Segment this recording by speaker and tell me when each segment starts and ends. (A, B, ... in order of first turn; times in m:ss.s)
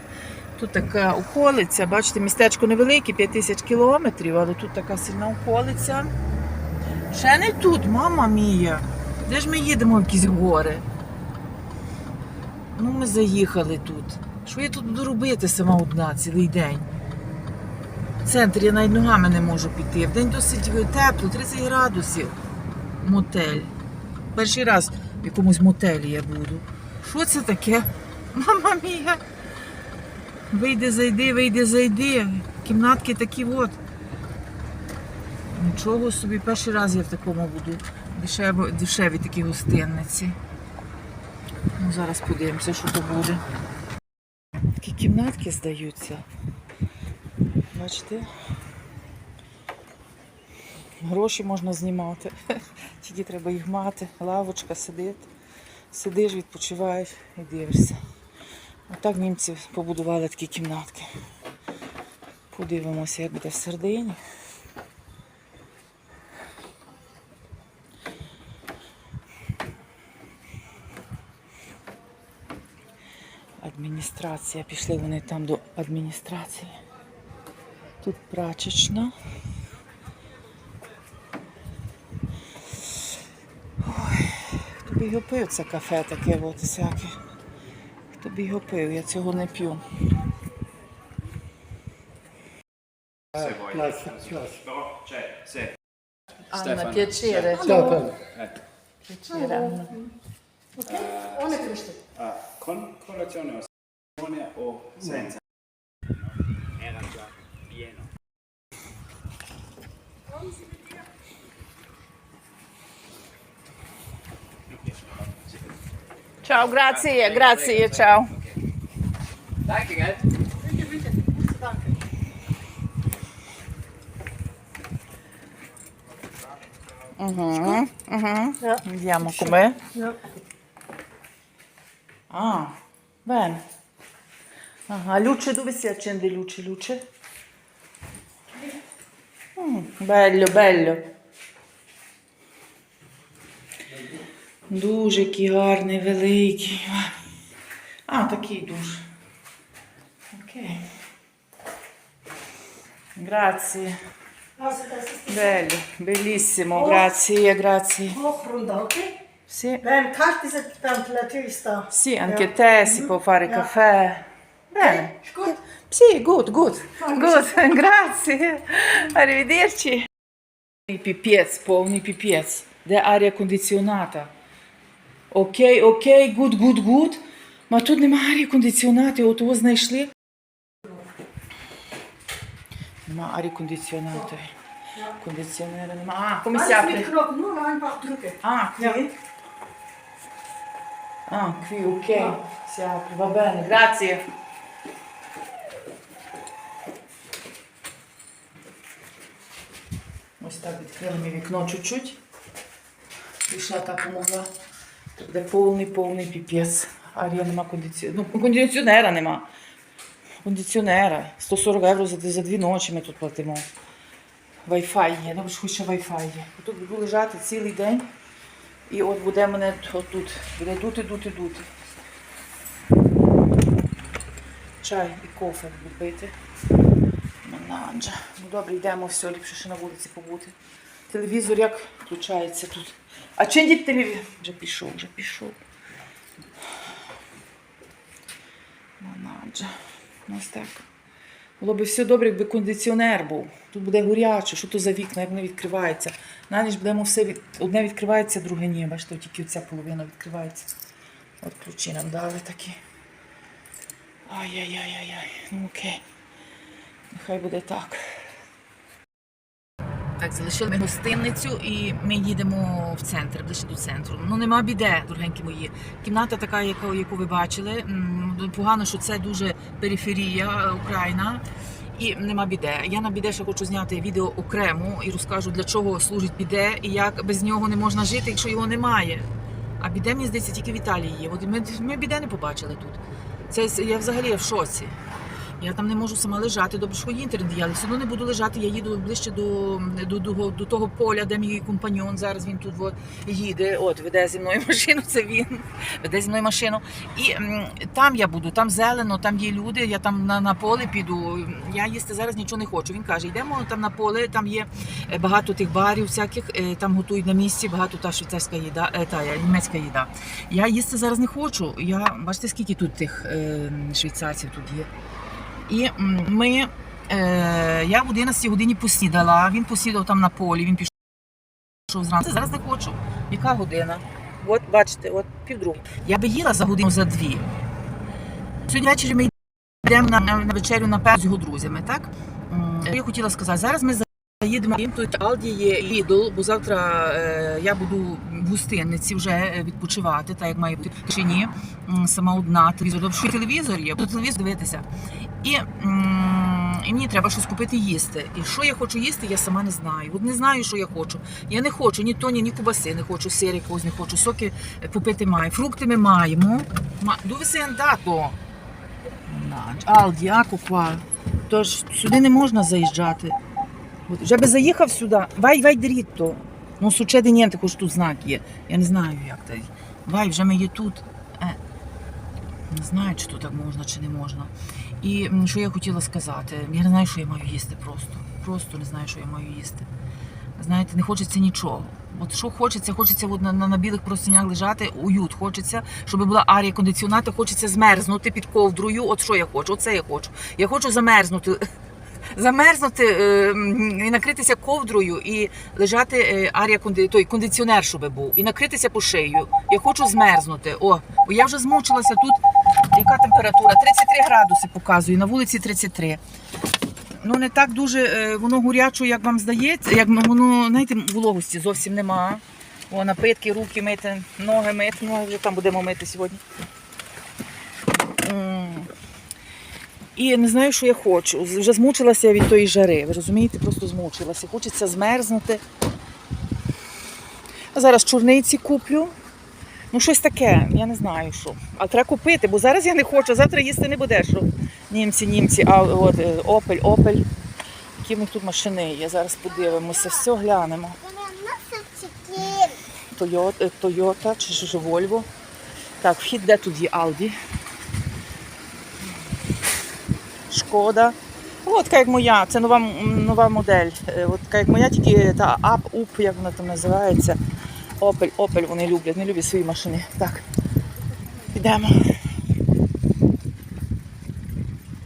0:00.6-0:06.1 A
0:07.1-0:10.8 A
0:12.8-0:16.9 A
0:18.2-0:22.4 A
0:23.0-0:23.7 A
0:24.3-0:29.2 A
0:30.5-0:33.8 A
0:35.4-0:40.4 A
0:41.8-0:43.4 A
0:44.8-0:46.2 A
0:47.7-0:48.3 A
0:51.0-0:55.3 A
0:55.9-0:58.0 A
0:58.9-1:01.1 A
1:02.5-1:04.2 A
1:13.6-1:16.8 A
1:18.0-1:19.1 A
1:23.8-1:27.2 A
1:28.2-1:29.8 A
1:33.4-1:34.8 B
1:36.5-1:38.2 A
1:37.6-1:38.0 C
1:39.1-1:40.1 A
1:39.5-1:39.9 C
1:40.8-1:42.0 C
1:42.2-1:43.6 B
1:44.2-1:45.4 B
1:56.4-1:58.4 A
2:00.6-2:01.9 C
2:07.2-2:09.8 A
2:08.6-2:10.2 C
2:12.3-2:13.6 A
2:14.9-2:17.0 A
2:19.6-2:21.1 A
2:24.7-2:27.1 A
2:28.1-2:29.1 A
2:30.3-2:30.9 A
2:33.2-2:34.0 A
2:34.6-2:35.4 C
2:35.3-2:38.2 A
2:38.1-2:39.2 C
2:39.5-2:39.9 A
2:39.8-2:41.9 C
2:41.9-2:50.1 A
2:44.8-2:45.5 C
2:47.0-2:47.6 C
2:50.9-2:54.3 A
2:55.3-3:00.1 A
3:03.0-3:04.6 A
3:05.1-3:07.1 A
3:06.5-3:09.0 C
3:08.4-3:09.1 A
3:11.3-3:14.3 A
3:20.4-3:22.2 A
3:23.5-3:24.5 A
3:25.2-3:29.5 A
3:30.4-3:33.7 A
3:34.6-3:38.1 A
3:38.9-3:41.7 A
3:44.8-3:46.3 A
3:47.4-3:50.6 A
3:51.1-3:55.6 A
3:59.0-3:59.7 A
4:00.3-4:00.9 A
4:01.6-4:10.7 A
4:11.4-4:12.8 A
4:14.3-4:16.0 A
4:17.1-4:18.0 A
4:20.2-4:39.3 A
4:39.8-4:45.0 A
4:45.6-5:14.9 A
5:15.7-5:21.0 A
5:21.9-5:27.6 A
5:28.7-5:58.4 A
5:59.3-6:03.4 A
6:04.1-6:11.6 A
6:12.7-6:19.9 A
6:20.6-6:31.6 A
6:32.3-6:46.2 A
6:47.2-6:56.4 A
6:58.0-6:58.9 A
7:00.2-7:05.6 A
7:07.7-7:09.2 A
7:09.9-7:17.3 A
7:18.0-7:25.3 A
7:26.0-7:27.4 A
7:30.5-7:37.4 A
7:38.0-7:40.5 A
7:41.4-7:42.1 A